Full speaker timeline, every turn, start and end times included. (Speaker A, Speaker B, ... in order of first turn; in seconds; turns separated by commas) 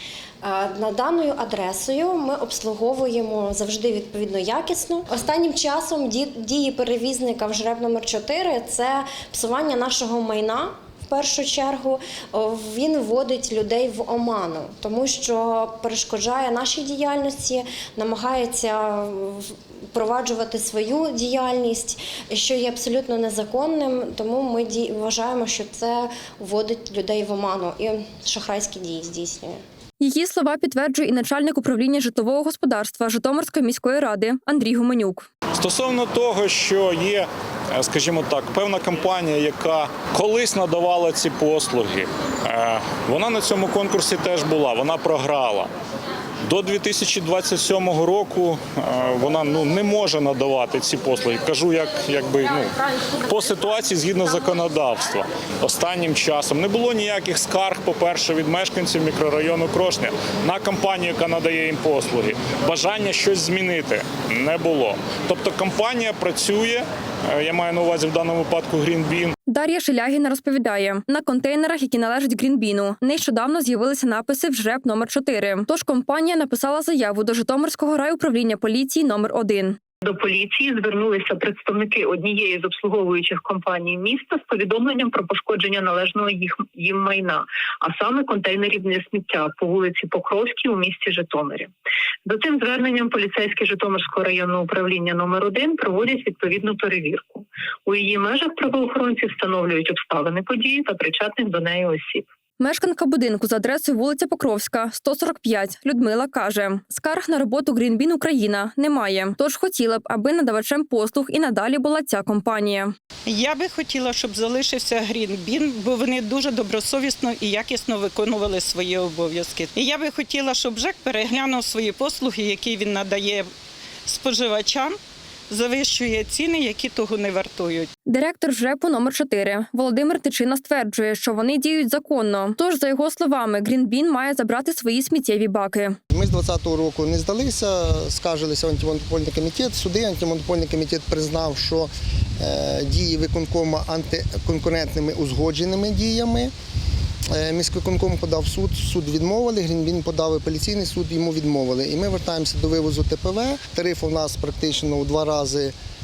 Speaker A: 0.4-29.6, Speaker B: 30.0-35.3, Speaker C: 35.6-45.7, Speaker C: 46.5-69.3, Speaker B: 69.5-79.8, Speaker D: 80.0-91.7, Speaker D: 92.3-102.2, Speaker B: 102.6-112.9, Speaker E: 113.3-123.5, Speaker E: 124.1-125.0, Speaker E: 125.5-127.9, Speaker B: 128.1-136.0, Speaker F: 136.1-146.5, Speaker F: 147.3-155.7